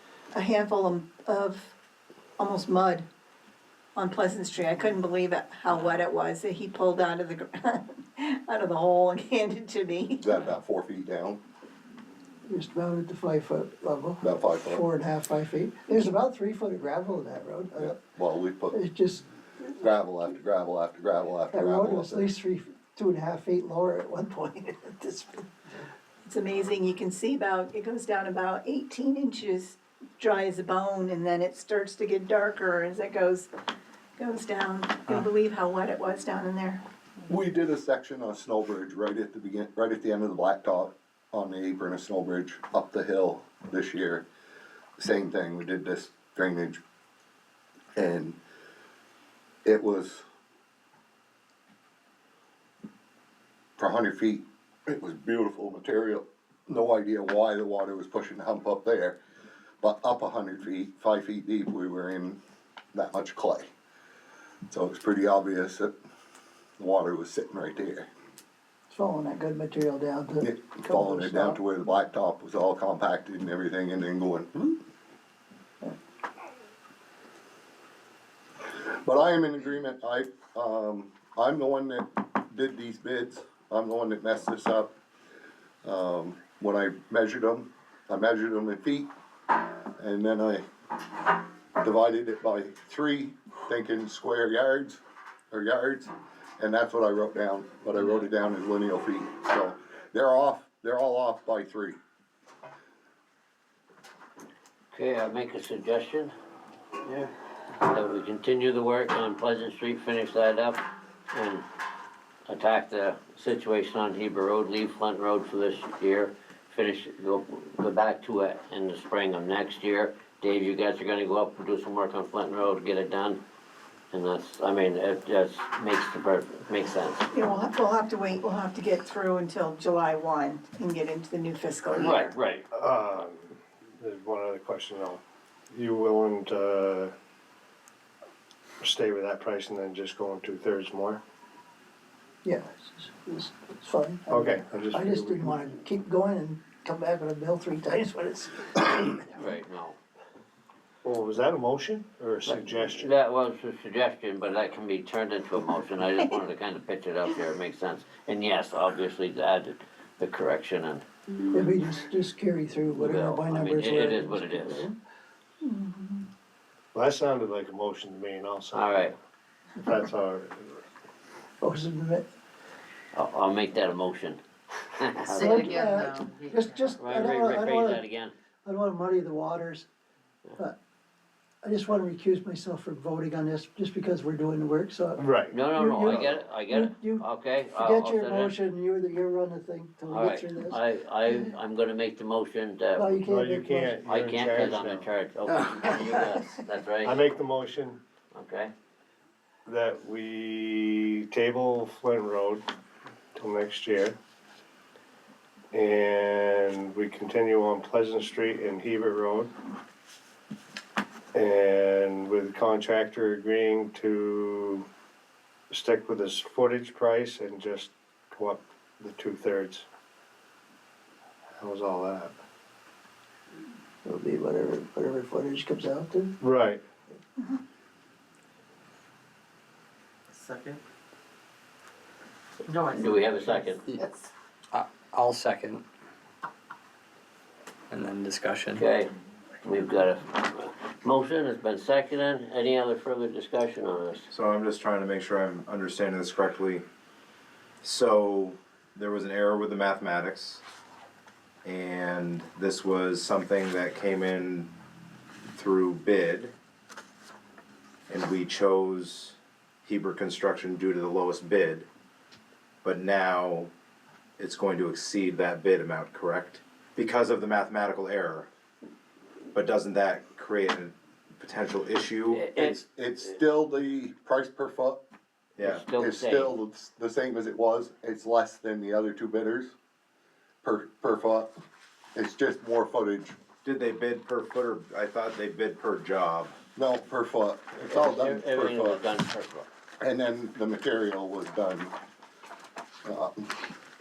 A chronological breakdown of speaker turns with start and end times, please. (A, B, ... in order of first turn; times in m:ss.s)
0:00.3-0:01.7 A
0:02.4-0:03.0 A
0:04.0-0:10.2 A
0:10.2-0:11.4 B
0:12.5-0:18.0 C
0:14.2-0:14.8 B
0:17.8-0:18.8 B
0:18.7-0:19.2 C
0:19.7-0:22.3 B
0:21.5-0:25.5 C
0:26.2-0:33.5 A
0:34.2-0:36.8 A
0:37.3-0:44.2 B
0:45.0-0:46.8 B
0:48.0-0:48.4 B
0:49.6-0:50.2 B
0:53.8-0:59.2 B
0:59.8-1:02.4 B
1:02.9-1:03.7 B
1:04.7-1:06.0 B
1:06.8-1:08.1 B
1:08.9-1:11.6 C
1:10.4-1:14.8 B
1:18.7-1:24.9 B
1:25.8-1:29.1 B
1:30.0-1:30.6 B
1:31.8-1:42.0 B
1:44.9-1:46.3 D
1:47.8-1:51.6 D
1:52.5-2:03.4 D
2:04.1-2:07.3 D
2:07.3-2:12.3 A
2:12.0-2:12.6 D
2:12.7-2:17.1 E
2:18.8-2:21.2 E
2:22.4-2:29.3 C
2:24.3-2:25.6 E
2:29.3-2:30.0 D
2:31.0-2:33.2 E
2:32.5-2:41.0 D
2:41.5-2:45.0 C
2:43.0-2:44.9 D
2:46.9-2:49.1 E
2:48.7-2:49.2 D
2:49.8-2:50.8 E
2:51.6-2:52.3 C
2:53.1-2:54.4 D
2:55.0-2:56.0 D
2:55.3-2:58.0 C
2:55.4-2:56.9 F
2:57.0-2:58.3 D
2:58.6-2:59.9 C
3:01.6-3:10.8 C
3:05.2-3:06.3 E
3:05.5-3:08.6 D
3:10.1-3:13.2 D
3:13.0-3:14.0 C
3:13.2-3:15.1 E
3:14.0-3:17.2 D
3:17.0-3:18.0 E
3:18.3-3:18.7 D
3:19.7-3:22.6 E
3:23.3-3:24.2 E
3:25.7-3:29.5 E
3:31.3-3:34.8 E
3:35.7-3:39.9 E
3:41.6-3:42.4 E
3:44.0-3:46.4 C
3:46.4-3:46.8 E
3:50.3-3:50.8 F
3:52.7-3:54.3 F
3:52.9-3:53.9 D
3:54.7-3:55.8 G
3:57.9-3:58.8 G
3:58.7-3:59.1 D
3:59.6-4:04.2 D
4:04.3-4:06.8 H
4:07.8-4:10.6 H
4:11.6-4:14.7 H
4:15.5-4:16.5 H
4:18.1-4:21.9 H
4:22.8-4:23.7 H
4:24.4-4:28.5 H
4:29.5-4:32.5 H
4:32.3-4:32.8 D
4:32.5-4:35.0 B
4:35.6-4:35.8 H
4:35.6-4:36.5 D
4:36.0-4:39.7 B
4:40.6-4:41.5 B
4:42.1-4:43.4 B
4:43.6-4:46.5 H
4:46.8-4:49.0 B
4:47.8-4:49.6 D
4:50.0-4:51.9 B
4:53.0-4:53.7 B